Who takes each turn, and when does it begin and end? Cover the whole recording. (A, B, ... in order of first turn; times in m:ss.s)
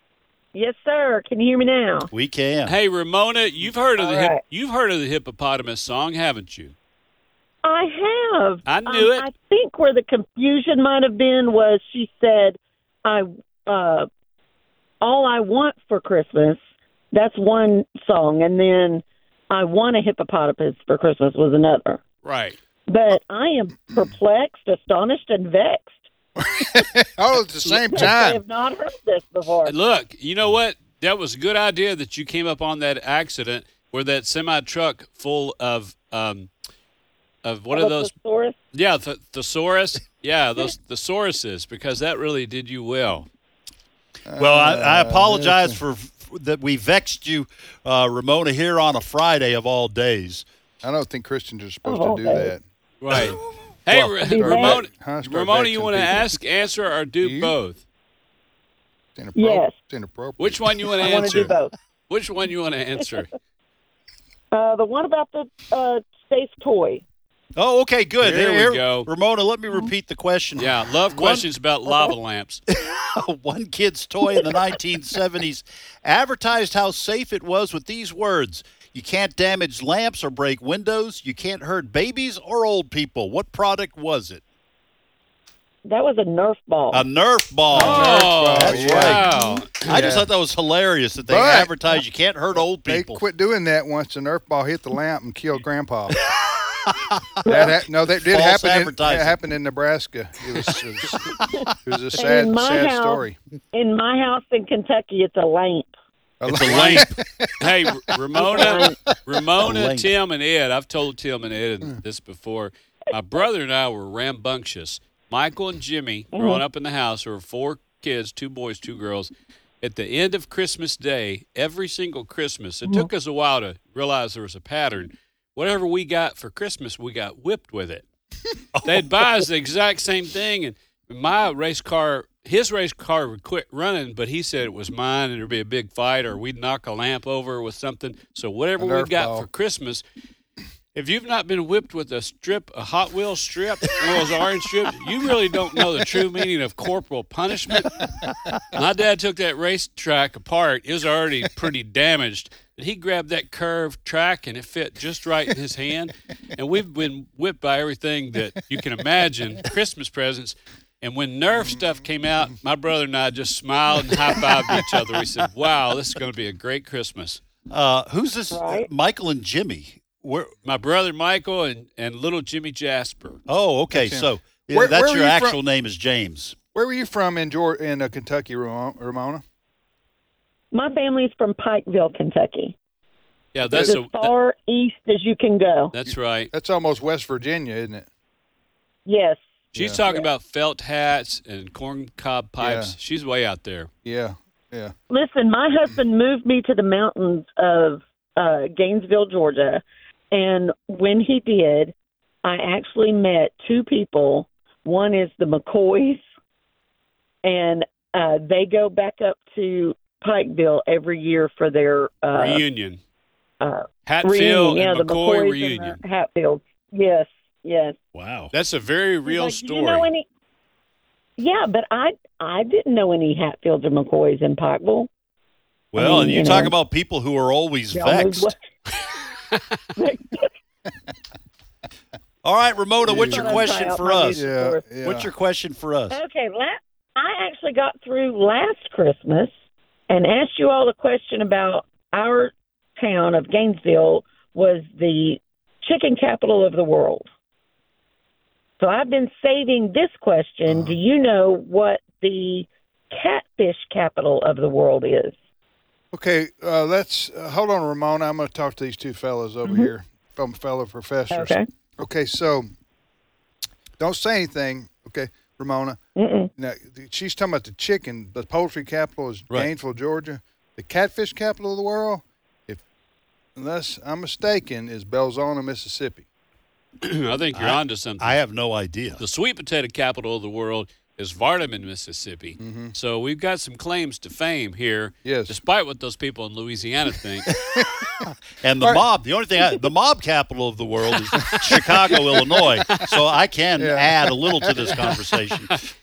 0:00.5-0:02.1 A
0:02.1-0:02.8 B
0:02.7-0:06.7 C
0:04.0-0:04.4 A
0:07.6-0:14.1 A
0:08.7-0:09.2 C
0:15.0-0:16.6 A
0:17.1-0:22.0 A
0:22.2-0:22.6 C
0:22.9-0:25.9 A
0:26.4-0:28.4 D
0:27.6-0:29.7 A
0:29.6-0:36.5 C
0:37.4-0:38.1 C
0:37.7-0:38.6 A
0:38.7-0:43.3 C
0:44.2-0:45.8 D
0:44.4-0:50.4 B
0:50.8-0:52.6 D
0:51.8-0:52.5 A
0:53.0-0:57.8 C
0:53.9-0:56.3 D
0:54.2-0:54.8 A
0:57.2-0:57.5 D
0:59.2-1:01.3 D
0:59.3-0:59.7 A
1:00.4-1:01.5 C
1:01.0-1:01.7 A
1:02.1-1:03.3 C
1:04.5-1:07.0 A
1:07.6-1:11.5 B
1:08.2-1:09.1 C
1:10.6-1:12.6 C
1:12.7-1:24.4 B
1:25.8-1:27.0 A
1:26.9-1:29.3 B
1:27.7-1:29.3 D
1:27.7-1:30.0 C
1:29.2-1:29.6 A
1:29.8-1:33.2 B
1:29.9-1:30.3 D
1:31.3-1:31.7 D
1:32.6-1:36.2 D
1:36.3-1:39.4 B
1:37.4-1:37.7 A
1:37.5-1:43.4 D
1:42.2-1:45.9 A
1:46.4-1:48.1 D
1:46.4-1:47.1 B
1:46.5-1:59.3 C
1:48.4-1:49.0 A
1:49.6-1:50.1 B
1:56.3-1:56.6 A
1:59.8-2:08.0 C
2:08.7-2:09.1 B
2:08.8-2:20.0 C
2:18.8-2:19.5 D
2:20.9-2:28.1 C
2:28.7-2:47.4 C
2:47.7-2:50.5 B
2:48.5-2:48.9 A
2:50.6-2:53.4 C
2:53.5-2:56.6 B
2:53.9-2:55.6 D
2:56.7-2:59.4 D
3:00.7-3:02.8 A
3:03.5-3:04.3 C
3:03.7-3:05.9 A
3:05.9-3:06.5 C
3:06.5-3:08.1 D
3:09.0-3:09.4 A
3:09.7-3:10.0 D
3:09.7-3:13.9 C
3:12.6-3:12.9 D
3:14.0-3:14.9 D
3:15.1-3:26.2 A
3:27.4-3:32.6 A
3:32.3-3:33.0 C
3:33.6-3:38.0 A
3:34.0-3:36.0 C
3:38.1-3:38.5 B
3:38.5-3:40.1 C
3:39.2-3:40.2 A
3:41.4-3:45.1 A
3:45.9-3:48.5 B
3:46.0-3:46.7 A
3:47.9-3:48.6 A
3:50.0-3:50.5 A
3:52.4-3:54.4 B
3:53.0-3:53.7 D
3:53.0-3:54.8 A
3:54.3-3:55.3 D
3:55.0-3:56.2 B
3:56.1-3:59.5 A
4:00.1-4:07.3 A
4:08.8-4:15.3 A
4:10.7-4:11.0 D
4:16.1-4:22.7 D
4:21.3-4:21.7 A
4:24.0-4:26.0 D
4:26.2-4:26.5 A
4:26.6-4:32.8 D
4:33.6-4:36.2 D
4:37.0-4:38.4 C
4:37.5-4:39.2 B
4:39.2-4:47.5 C
4:42.6-4:42.9 D
4:45.2-4:45.5 D
4:47.7-4:55.8 B
4:47.7-4:48.1 D
4:51.4-4:52.6 D
4:53.8-4:55.2 D